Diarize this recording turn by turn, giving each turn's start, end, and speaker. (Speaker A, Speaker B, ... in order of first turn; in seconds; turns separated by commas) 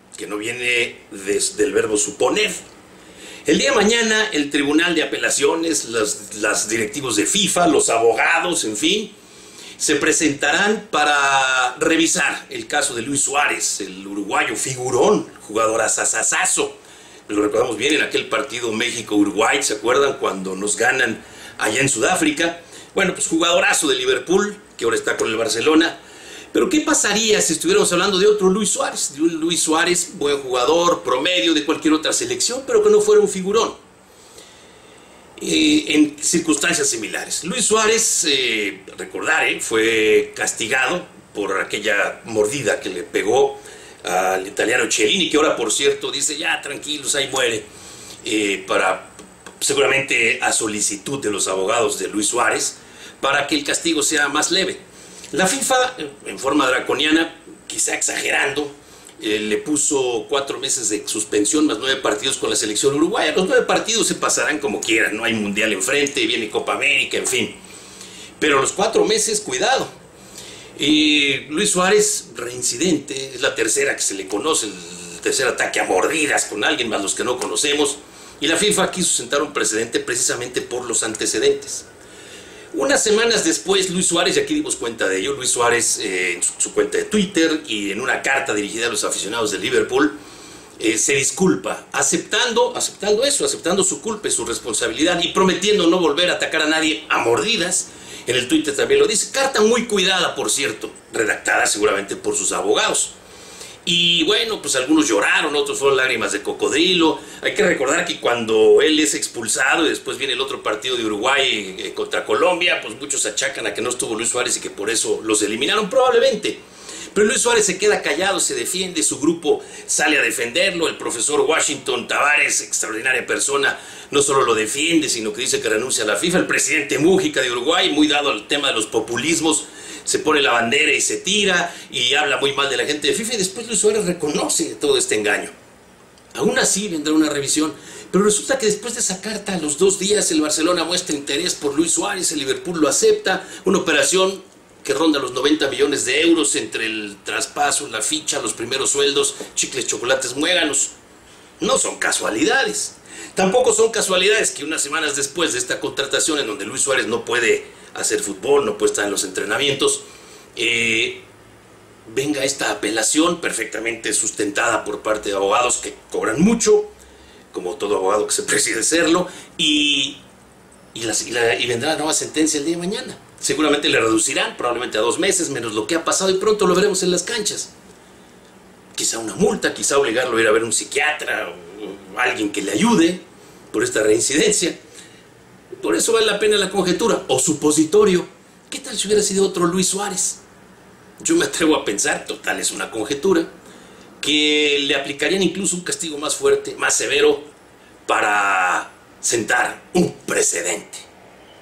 Speaker A: 0.1-2.6, Speaker A: 3.5-9.1, Speaker A: 9.8-26.0, Speaker A: 26.5-33.8, Speaker A: 35.4-47.7, Speaker A: 48.2-67.6, Speaker A: 68.4-69.9, Speaker A: 70.8-81.9, Speaker A: 82.7-90.2, Speaker A: 90.8-103.1, Speaker A: 103.8-116.6, Speaker A: 117.1-135.5, Speaker A: 136.3-150.9, Speaker A: 151.6-161.2, Speaker A: 162.1-166.9, Speaker A: 167.5-170.2, Speaker A: 170.9-177.7, Speaker A: 178.9-184.8, Speaker A: 185.7-190.4, Speaker A: 191.2-193.5, Speaker A: 194.2-197.5, Speaker A: 198.1-201.1